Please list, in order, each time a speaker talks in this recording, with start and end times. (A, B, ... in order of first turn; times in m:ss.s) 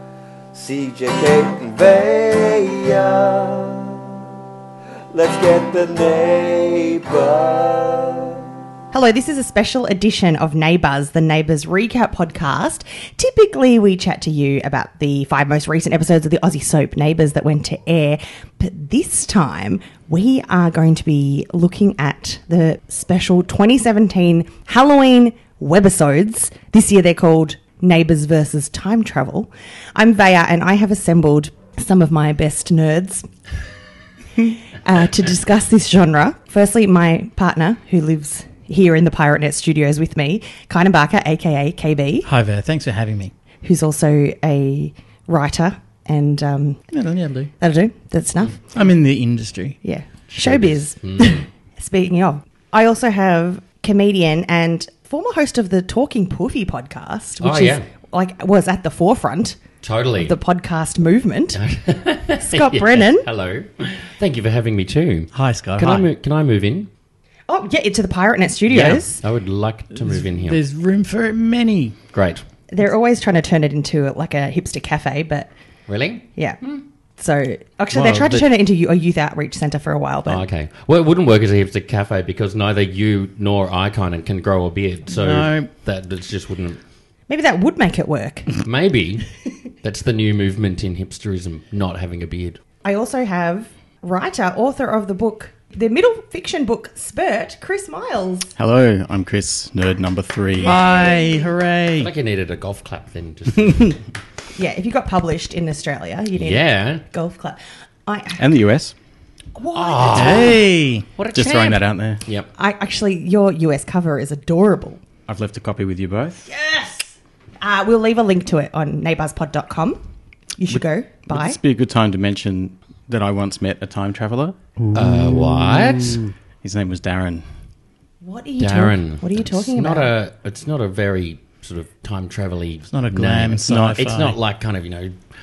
0:00.5-0:04.1 A
0:05.1-0:08.4 A
0:08.9-0:33.3 B
0:34.4-0:42.3 B
0:42.2-0:43.3 C
0:43.6-0:46.8 B
0:46.9-0:47.5 C
0:47.6-0:48.6 B
0:48.7-0:49.8 C
0:49.8-0:59.6 B
0:50.4-0:51.4 D
0:57.4-0:57.8 D
0:59.8-1:00.4 D
1:00.2-1:01.6 B
1:01.5-1:06.9 D
1:02.4-1:03.3 B
1:05.3-1:06.1 C
1:07.5-1:09.2 B
1:08.7-1:10.6 D
1:09.9-1:12.0 C
1:12.1-1:12.4 D
1:12.7-1:15.5 B
1:15.9-1:16.8 D
1:17.2-1:20.4 B
1:17.9-1:18.5 D
1:20.3-1:26.8 D
1:25.1-1:25.7 C
1:27.3-1:28.5 B
1:28.6-1:29.3 D
1:29.8-1:32.6 D
1:32.8-1:38.5 B
1:38.6-1:40.9 E
1:40.6-1:41.5 B
1:40.6-1:42.1 C
1:42.0-1:44.0 D
1:44.6-1:48.5 B
1:46.3-1:47.0 D
1:48.4-1:49.0 E
1:49.5-1:50.6 B
1:49.7-1:50.6 D
1:50.1-1:51.1 C
1:51.2-1:52.5 D
1:51.3-1:52.2 E
1:52.6-1:55.0 B
1:55.3-1:56.5 E
1:56.4-2:00.0 B
2:00.6-2:01.6 B
2:00.7-2:04.6 E
2:04.8-2:05.9 C
2:04.9-2:06.2 D
2:05.9-2:07.4 E
2:08.2-2:10.1 B
2:08.6-2:15.2 D
2:12.9-2:14.4 C
2:13.7-2:14.1 E